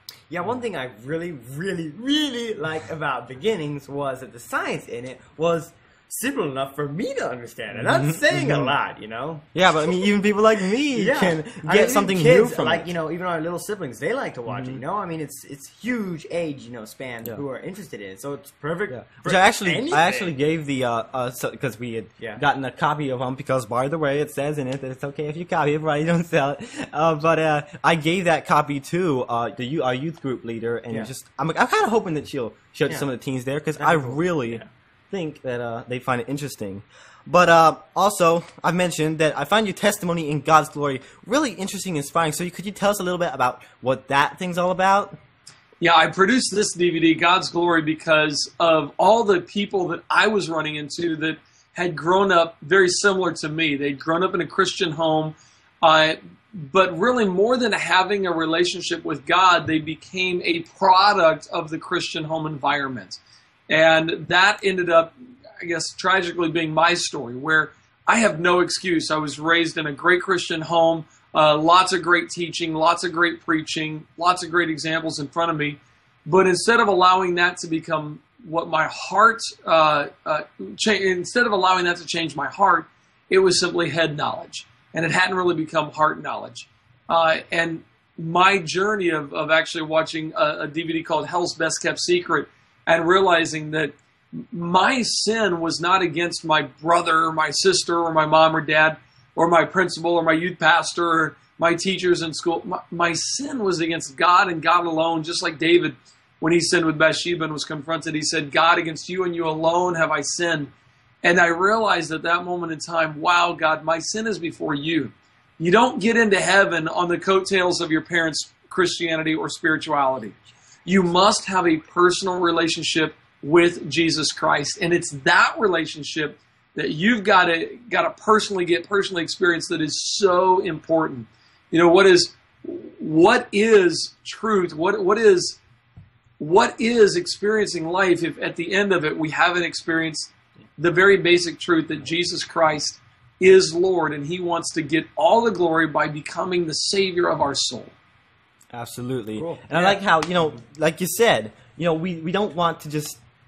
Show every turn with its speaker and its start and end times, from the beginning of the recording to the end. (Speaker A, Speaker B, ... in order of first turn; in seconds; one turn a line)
Speaker A: 0.3-9.5
Speaker B: 7.8-8.7
Speaker B: 9.5-12.9
Speaker A: 10.9-20.3
Speaker B: 14.5-14.8
Speaker B: 18.9-45.1
Speaker A: 33.8-34.7
Speaker C: 45.8-110.7
Speaker C: 111.2-120.3
Speaker C: 120.8-135.6
Speaker C: 136.4-147.9
Speaker B: 148.7-153.2
Speaker A: 149.3-150.0